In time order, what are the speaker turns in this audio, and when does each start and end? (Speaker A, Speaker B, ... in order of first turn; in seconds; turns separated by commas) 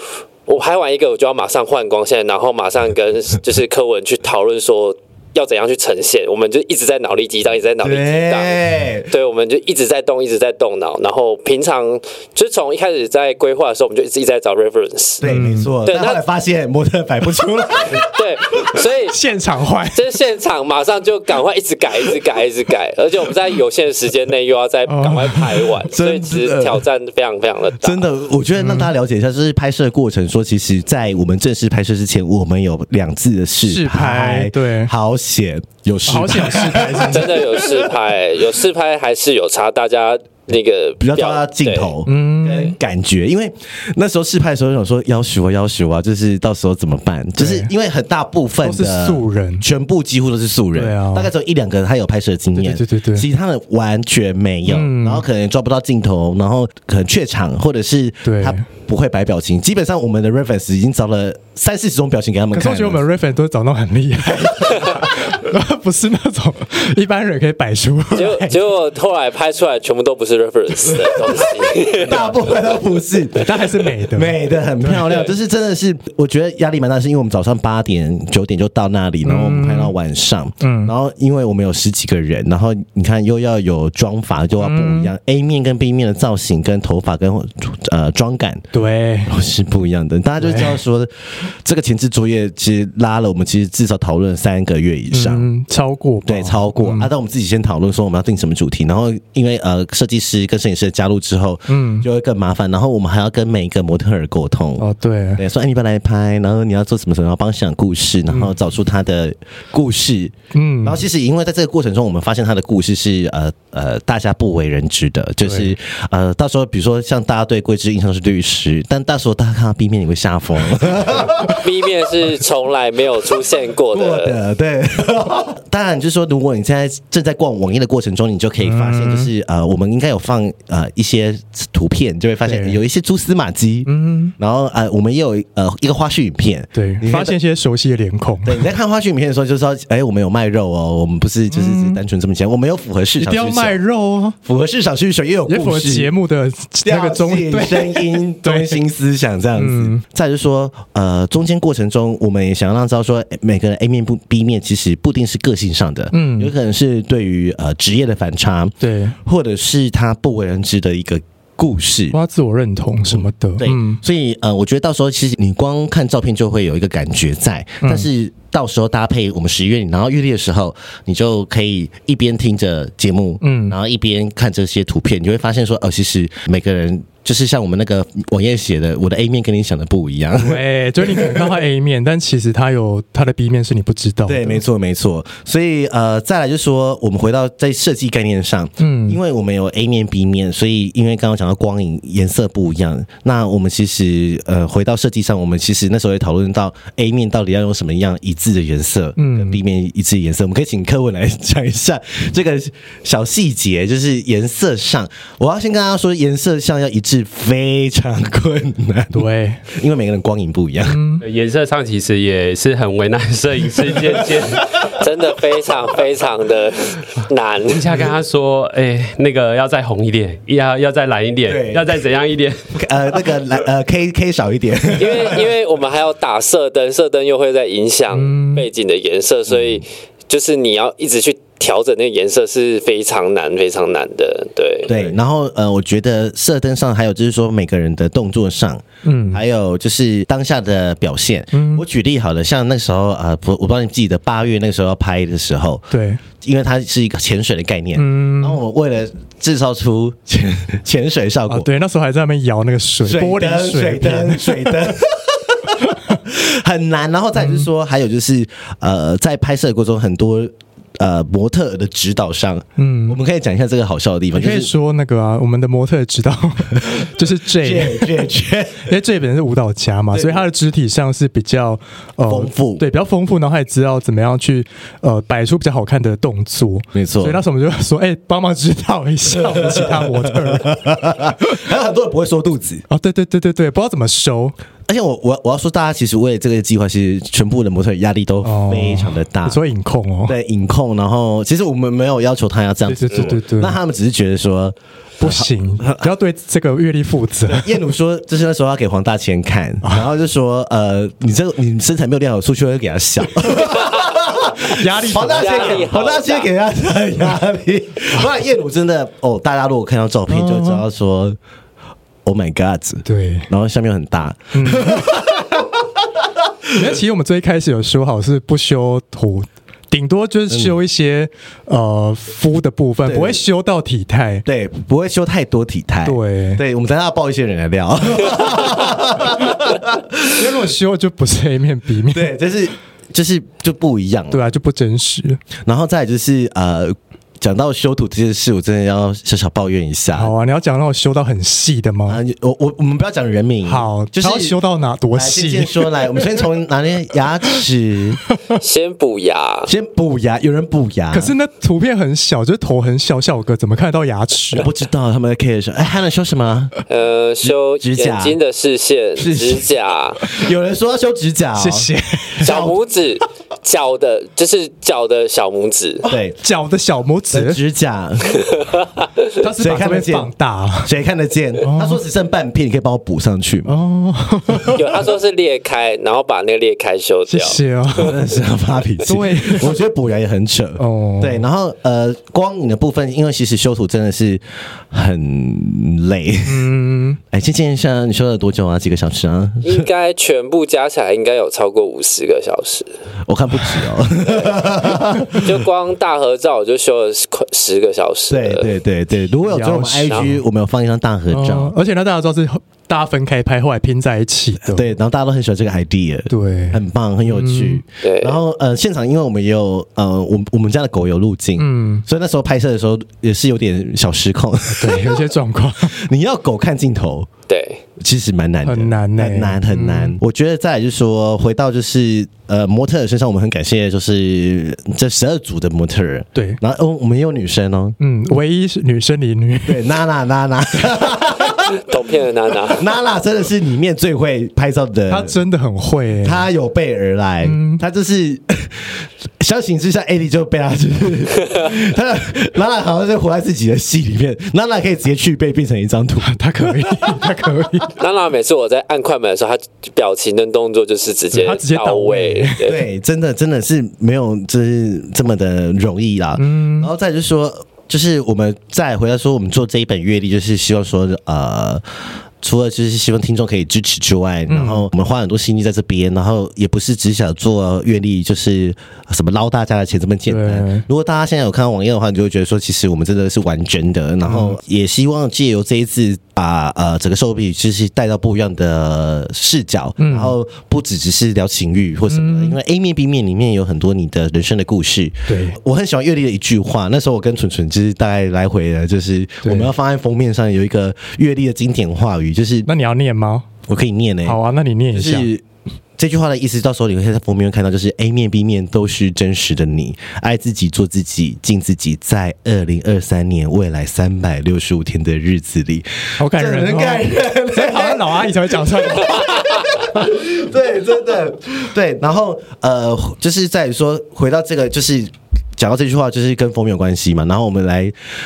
Speaker A: 0.5-8.6, Speaker B: 7.8-9.1, Speaker A: 9.1-15.2, Speaker B: 15.2-18.8, Speaker C: 15.2-15.7, Speaker A: 15.8-16.2, Speaker A: 18.0-19.2, Speaker C: 19.1-20.1, Speaker A: 19.9-28.1, Speaker C: 24.9-25.7, Speaker B: 25.8-26.9, Speaker B: 27.8-38.0, Speaker C: 28.6-28.9, Speaker C: 33.6-34.9, Speaker C: 36.1-37.5, Speaker A: 37.0-41.9, Speaker B: 41.0-63.1, Speaker C: 42.0-42.8, Speaker C: 47.4-47.7, Speaker C: 48.6-49.6, Speaker C: 50.8-51.3, Speaker C: 52.5-53.3, Speaker C: 54.7-55.2, Speaker C: 58.2-58.6, Speaker C: 62.5-68.6, Speaker A: 68.1-72.4, Speaker B: 70.9-88.7, Speaker C: 73.3-75.2, Speaker C: 79.2-80.0, Speaker C: 80.6-80.9, Speaker C: 84.6-85.1, Speaker C: 88.7-89.3, Speaker B: 89.3-95.5, Speaker C: 90.4-90.8, Speaker C: 95.1-97.1, Speaker B: 96.2-104.8, Speaker C: 101.7-102.1, Speaker C: 104.8-105.4, Speaker B: 105.4-121.7, Speaker C: 110.5-111.0, Speaker C: 115.4-115.7, Speaker A: 121.6-124.4, Speaker B: 123.9-137.4, Speaker C: 128.6-129.3, Speaker C: 132.4-132.8, Speaker C: 133.9-134.3, Speaker C: 136.7-138.6, Speaker B: 138.4-143.8, Speaker C: 141.5-142.0, Speaker C: 143.2-144.4, Speaker B: 144.4-146.1, Speaker C: 145.5-148.8, Speaker B: 146.8-162.2, Speaker C: 149.6-150.0, Speaker C: 156.1-156.5, Speaker C: 158.8-159.2, Speaker C: 162.1-164.0, Speaker B: 163.1-181.5, Speaker C: 167.8-168.1, Speaker C: 173.4-173.8, Speaker C: 180.4-184.6, Speaker B: 184.3-211.0, Speaker C: 188.8-189.2, Speaker C: 199.2-199.6, Speaker C: 209.1-209.7, Speaker C: 210.9-211.2, Speaker D: 211.2-214.9, Speaker B: 213.9-214.9, Speaker A: 215.0-217.9, Speaker D: 217.7-222.8, Speaker B: 221.5-222.0, Speaker B: 222.7-225.6, Speaker A: 224.9-235.2, Speaker C: 228.1-228.7, Speaker B: 229.5-229.8, Speaker B: 234.9-251.7, Speaker C: 239.0-239.4, Speaker C: 241.5-241.8, Speaker C: 245.9-246.2, Speaker C: 248.0-248.6, Speaker C: 251.5-254.9, Speaker B: 253.0-264.7, Speaker C: 255.8-256.2, Speaker C: 257.4-257.7, Speaker C: 262.8-263.2, Speaker C: 264.3-268.3, Speaker B: 266.8-268.9, Speaker C: 268.9-280.8, Speaker B: 270.1-270.5, Speaker B: 272.3-272.8, Speaker B: 276.9-277.4, Speaker B: 279.3-282.9, Speaker C: 282.9-284.6, Speaker B: 284.9-289.6, Speaker C: 288.4-290.4, Speaker B: 290.3-296.1, Speaker C: 292.9-293.8, Speaker C: 295.2-297.8, Speaker B: 297.5-311.4, Speaker C: 304.6-305.9, Speaker A: 305.3-306.5, Speaker C: 310.3-310.8, Speaker B: 312.2-316.7, Speaker C: 313.1-313.5, Speaker C: 314.5-315.2, Speaker C: 316.7-324.5, Speaker B: 320.5-320.8, Speaker B: 323.1-323.4, Speaker B: 324.5-330.7, Speaker C: 326.1-326.6, Speaker C: 330.3-332.4, Speaker B: 332.1-334.4, Speaker C: 334.3-335.4, Speaker B: 335.6-340.3, Speaker C: 340.1-342.2, Speaker B: 342.1-344.6, Speaker C: 343.6-346.2, Speaker B: 345.1-348.2, Speaker A: 348.6-349.7, Speaker B: 349.7-351.3, Speaker C: 351.1-354.7, Speaker B: 354.5-356.7, Speaker A: 356.9-360.3, Speaker B: 357.4-358.4, Speaker B: 359.2-359.7, Speaker B: 360.2-362.8, Speaker C: 361.6-362.5, Speaker A: 362.4-366.1, Speaker B: 366.1-366.4, Speaker C: 366.4-367.6, Speaker B: 367.3-368.6, Speaker A: 368.4-368.8, Speaker C: 369.4-370.9, Speaker B: 369.6-370.3, Speaker B: 370.8-373.7, Speaker C: 371.6-372.0, Speaker C: 373.6-374.9, Speaker A: 374.7-378.1, Speaker C: 377.3-378.2, Speaker B: 377.9-386.7, Speaker C: 379.0-379.8, Speaker C: 380.8-381.4, Speaker C: 386.4-387.2, Speaker B: 387.3-389.9, Speaker A: 389.6-392.9, Speaker B: 393.3-395.6, Speaker A: 394.3-394.6, Speaker A: 395.3-398.7, Speaker B: 398.3-401.8, Speaker C: 399.5-400.4, Speaker C: 401.3-404.9, Speaker B: 404.7-415.3, Speaker C: 406.3-407.8, Speaker A: 408.0-408.4, Speaker C: 411.6-412.1, Speaker C: 414.7-416.0, Speaker B: 415.8-417.3, Speaker A: 417.5-417.8, Speaker B: 418.0-428.0, Speaker C: 418.6-420.2, Speaker C: 426.4-426.6, Speaker C: 428.0-429.9, Speaker B: 429.7-431.8, Speaker A: 431.6-432.9, Speaker B: 432.7-435.4, Speaker C: 435.1-436.5, Speaker B: 436.2-447.9, Speaker C: 437.4-437.8, Speaker C: 446.2-447.9, Speaker A: 448.0-452.8, Speaker C: 451.3-452.6, Speaker B: 452.6-461.8, Speaker C: 456.4-456.9, Speaker B: 462.4-492.7, Speaker C: 464.5-464.9, Speaker C: 470.3-470.9, Speaker C: 474.2-474.6, Speaker C: 480.0-480.4, Speaker C: 482.1-482.6, Speaker C: 485.3-485.6, Speaker C: 489.4-489.7, Speaker C: 492.7-493.5, Speaker B: 493.7-494.4, Speaker C: 494.2-495.3, Speaker B: 494.9-495.4, Speaker B: 496.0-518.0, Speaker C: 506.2-509.7